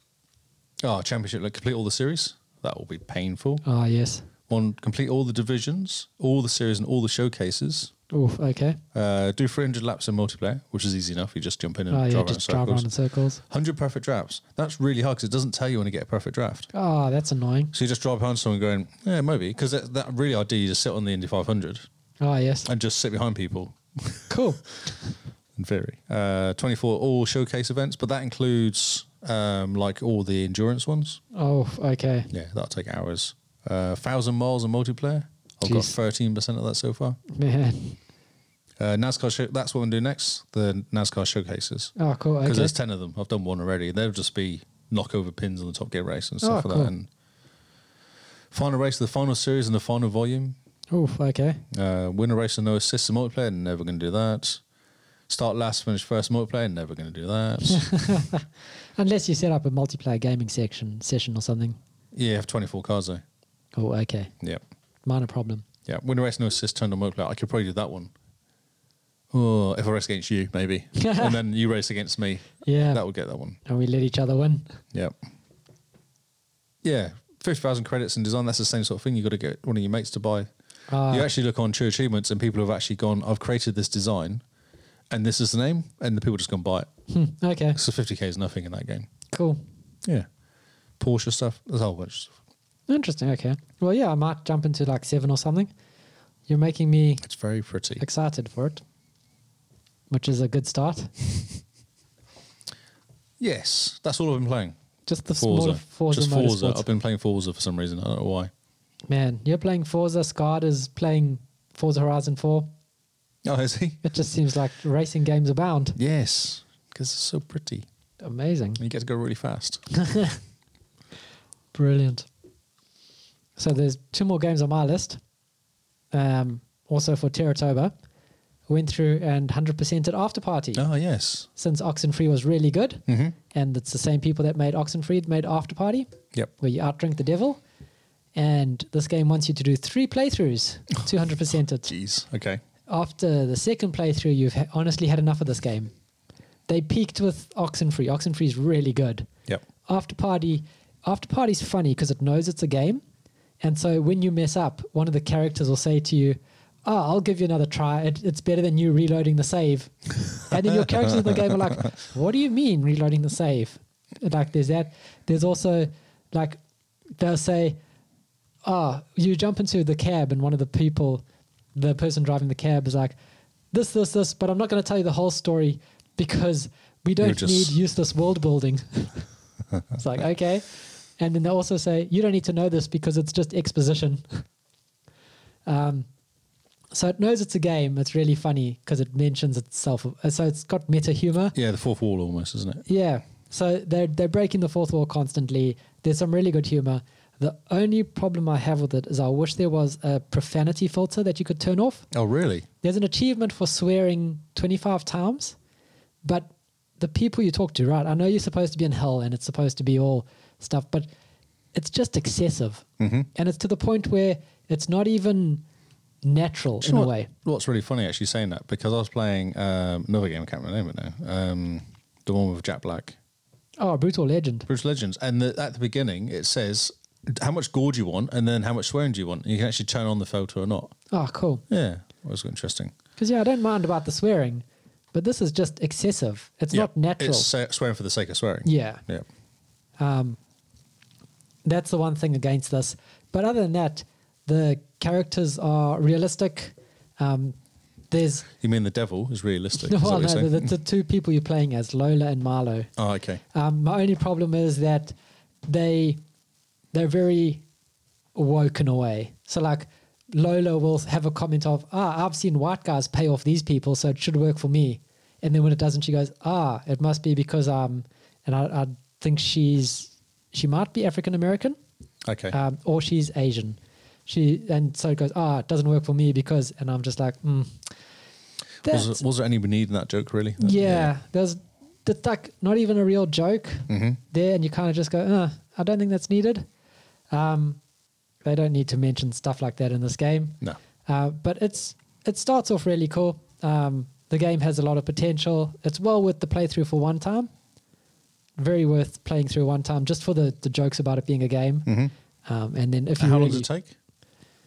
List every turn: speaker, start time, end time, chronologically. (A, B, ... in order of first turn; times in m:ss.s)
0:00.8-0:03.6 A
0:03.6-0:04.3 B
0:04.5-0:07.9 A
0:08.1-0:08.8 B
0:08.9-0:12.9 A
0:11.9-0:13.4 B
0:13.4-0:16.7 A
0:16.7-0:17.7 B
0:17.7-0:21.8 A
0:22.2-0:22.7 B
0:22.6-0:24.4 A
0:24.3-0:24.7 B
0:25.6-0:31.2 A
0:31.3-0:32.3 B
0:32.3-0:37.2 A
0:35.6-0:35.9 B
0:37.3-0:38.0 B
0:38.8-0:47.1 A
0:42.0-0:42.7 B
0:46.4-0:46.9 B
0:48.5-0:50.6 A
0:50.9-0:51.6 B
0:51.7-0:54.6 A
0:55.3-0:58.2 A
0:57.6-0:58.4 B
0:59.0-1:01.8 B
1:02.1-1:03.2 A
1:03.7-1:04.3 B
1:05.0-1:05.6 B
1:05.8-1:08.1 A
1:09.3-1:13.6 A
1:11.0-1:11.3 B
1:12.6-1:13.0 B
1:13.6-1:14.8 B
1:16.8-1:20.5 A
1:20.9-1:21.3 B
1:21.1-1:24.4 A
1:25.1-1:26.9 A
1:27.1-1:27.8 B
1:27.7-1:29.1 A
1:29.3-1:29.6 B
1:31.0-1:32.3 A
1:32.9-1:35.7 B
1:36.5-1:37.2 B
1:37.2-1:38.0 A
1:38.0-1:38.8 B
1:40.1-1:41.4 B
1:43.4-1:44.8 A
1:45.0-1:46.8 B
1:45.4-1:48.5 A
1:49.1-1:52.7 B
1:53.4-1:54.0 A
1:54.0-1:56.0 B
1:56.0-1:57.9 A
1:58.2-1:58.8 B
1:58.8-1:59.8 A
1:59.9-2:00.4 B
2:01.7-2:02.3 B
2:03.6-2:05.2 B
2:06.1-2:07.9 B
2:08.7-2:10.8 B
2:10.7-2:11.5 A
2:11.6-2:16.1 B
2:13.1-2:13.3 A
2:16.6-2:17.6 B
2:18.3-2:21.9 B
2:21.9-2:22.6 A
2:22.9-2:25.9 B
2:26.7-2:29.3 B
2:29.8-2:33.0 B
2:33.6-2:46.6 B
2:41.1-2:41.5 A
2:47.2-2:47.8 B
2:48.6-2:51.2 B
2:51.7-2:53.1 B
2:53.7-2:59.3 B
2:57.2-2:57.8 A
2:59.9-3:04.4 B
3:05.6-3:06.1 B
3:06.9-3:11.5 B
3:11.5-3:12.8 A
3:12.9-3:22.0 B
3:22.1-3:22.6 A
3:22.8-3:25.6 B
3:26.2-3:31.1 B
3:31.7-3:35.6 B
3:33.0-3:33.3 A
3:36.2-3:37.3 B
3:36.8-3:43.2 A
3:43.8-3:44.7 B
3:44.7-3:50.9 A
3:51.1-3:51.6 B
3:51.7-3:52.9 A
3:53.2-3:57.5 B
3:56.7-3:59.2 A
3:58.6-3:59.0 B
4:00.0-4:00.4 B
4:01.6-4:07.6 B
4:08.1-4:08.5 B
4:08.6-4:10.7 A
4:09.8-4:12.9 B
4:13.0-4:13.4 A
4:13.5-4:15.1 B
4:15.6-4:16.2 B
4:16.9-4:17.6 B
4:18.3-4:31.8 B
4:32.2-4:32.5 A
4:32.5-4:37.8 B
4:38.8-4:41.1 A
4:38.8-4:39.2 B
4:40.6-4:46.6 B
4:43.9-4:44.2 A
4:47.3-4:47.8 B
4:48.4-4:57.5 B
4:58.6-5:01.9 B
5:01.8-5:02.1 A
5:02.4-5:03.7 B
5:03.2-5:03.9 A